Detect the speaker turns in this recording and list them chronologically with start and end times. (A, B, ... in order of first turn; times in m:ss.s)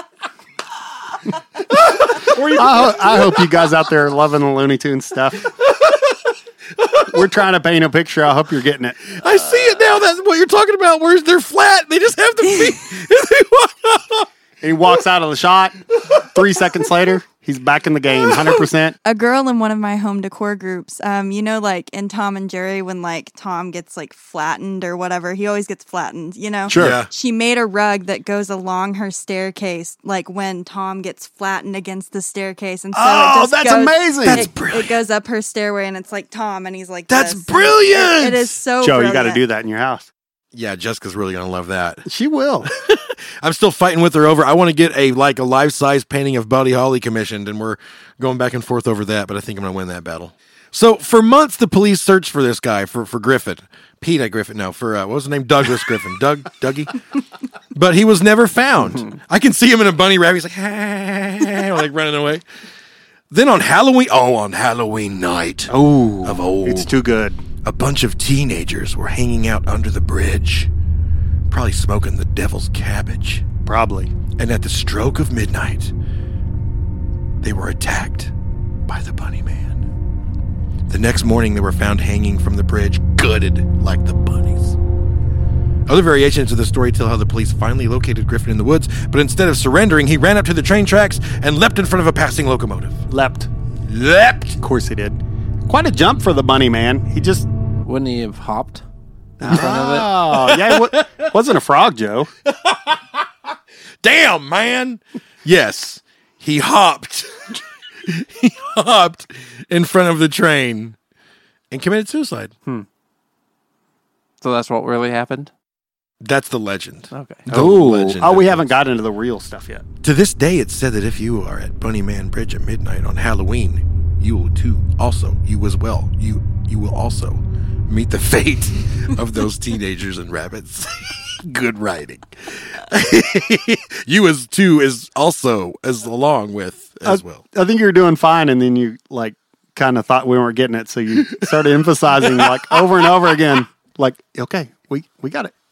0:01.6-0:03.5 A
0:02.5-0:05.5 B
0:05.7-0:06.2 A
0:06.8-0:07.2 A
0:07.0-0:09.2 B
0:09.1-0:14.3 A
0:14.6-0:19.0 B
0:16.1-0:16.4 A
0:19.0-0:39.4 C
0:26.7-0:27.0 B
0:26.7-0:27.1 A
0:32.9-0:34.4 B
0:34.2-0:35.0 A
0:37.1-0:38.6 A
0:38.8-0:40.1 B
0:40.5-0:42.0 A
0:42.0-0:42.7 B
0:42.6-0:57.0 A
0:57.7-1:02.4 A
1:03.3-1:06.9 A
1:05.7-1:07.4 B
1:07.6-1:10.7 A
1:11.5-1:13.4 A
1:13.6-1:14.1 B
1:14.4-1:15.9 A
1:17.4-1:18.3 A
1:18.9-1:19.9 A
1:20.9-1:24.8 A
1:25.9-1:33.0 A
1:33.1-1:33.5 B
1:33.9-1:34.6 A
1:34.6-1:37.5 B
1:37.8-1:38.8 D
1:39.4-1:42.3 B
1:39.4-1:40.1 D
1:40.3-1:41.3 A
1:42.4-1:43.2 A
1:44.0-1:51.0 A
1:51.7-1:52.5 A
1:54.4-1:55.5 D
1:56.2-1:58.7 A
1:57.1-1:57.4 D
1:57.5-1:59.8 B
2:00.0-2:17.4 A
2:17.0-2:25.5 B
2:21.2-2:21.5 A
2:22.2-2:22.9 A